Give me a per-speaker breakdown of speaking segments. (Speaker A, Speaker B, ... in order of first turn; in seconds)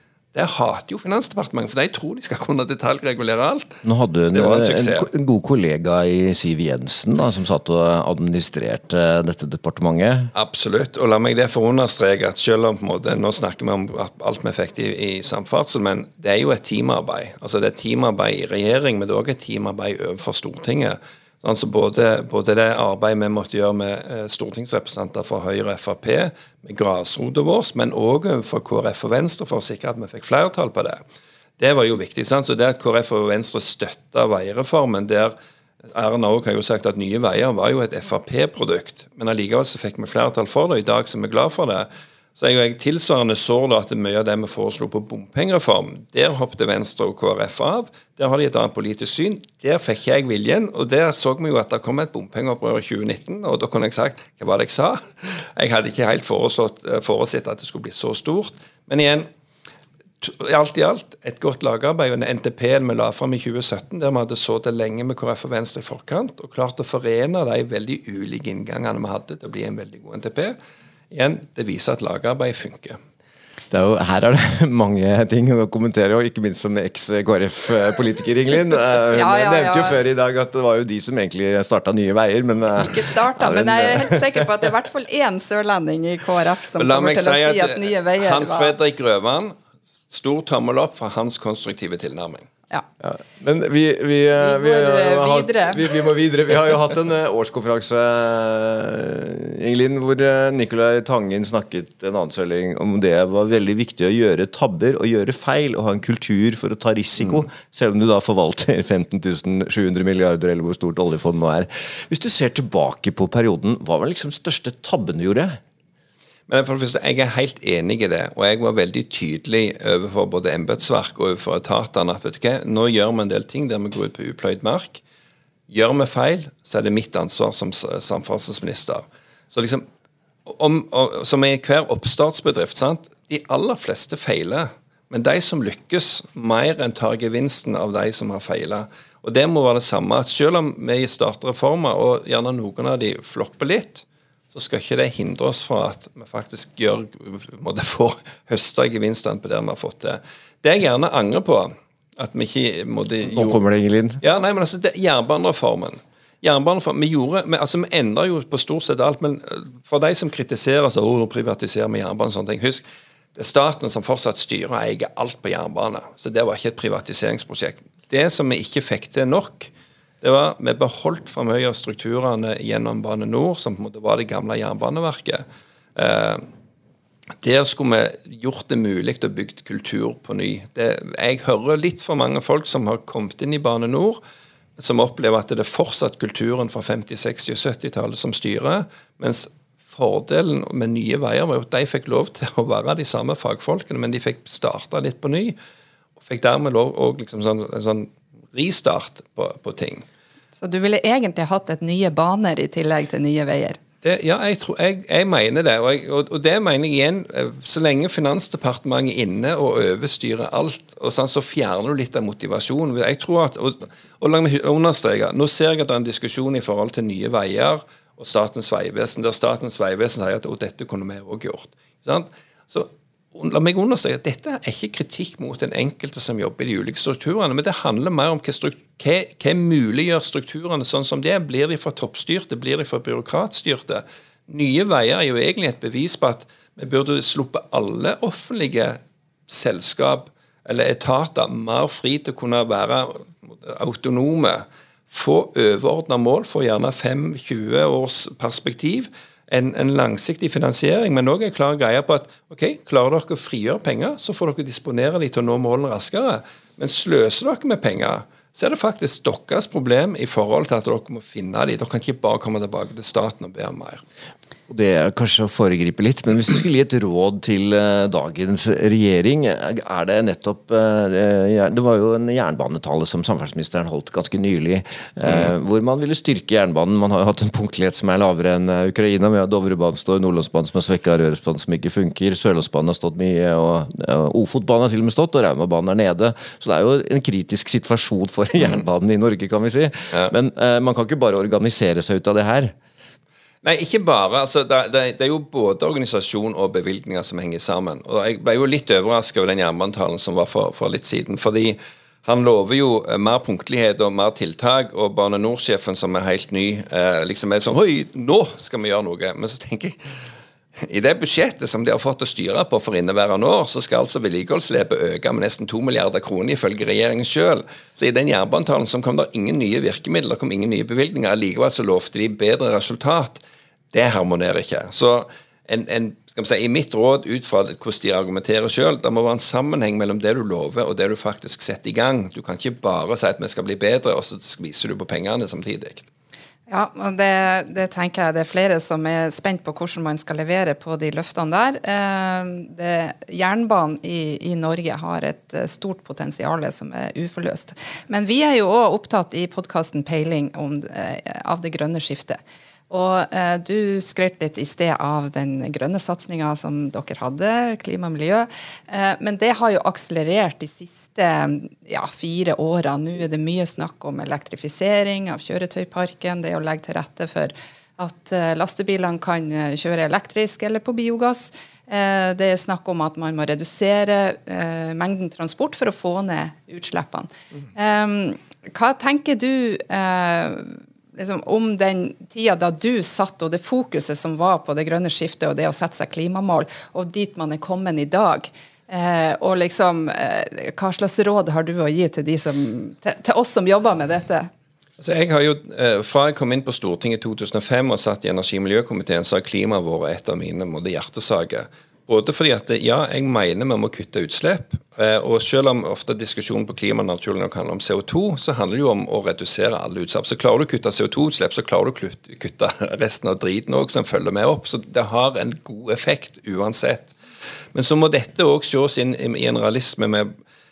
Speaker A: 0.3-3.8, 4.3-5.1, 10.3-31.0, 31.6-35.3, 35.9-59.3, 60.2-70.6, 71.1-73.0, 86.8-89.5, 90.1-92.5, 116.5-125.0, 125.7-129.8, 130.5-153.6, 154.2-162.8, 163.3-175.4, 176.0-176.4, 177.4-184.2, 184.8-195.6, 196.2-200.1, 204.0-264.0, 275.3-275.5, 293.6-310.0, 310.8-336.1, 395.0-417.1, 417.7-420.3
Speaker B: 3.8-10.3, 73.7-84.5, 93.0-115.6, 153.3-154.2, 264.7-292.7
Speaker C: 79.1-80.0, 82.8-88.7, 94.4-95.9, 200.6-203.8, 336.7-394.5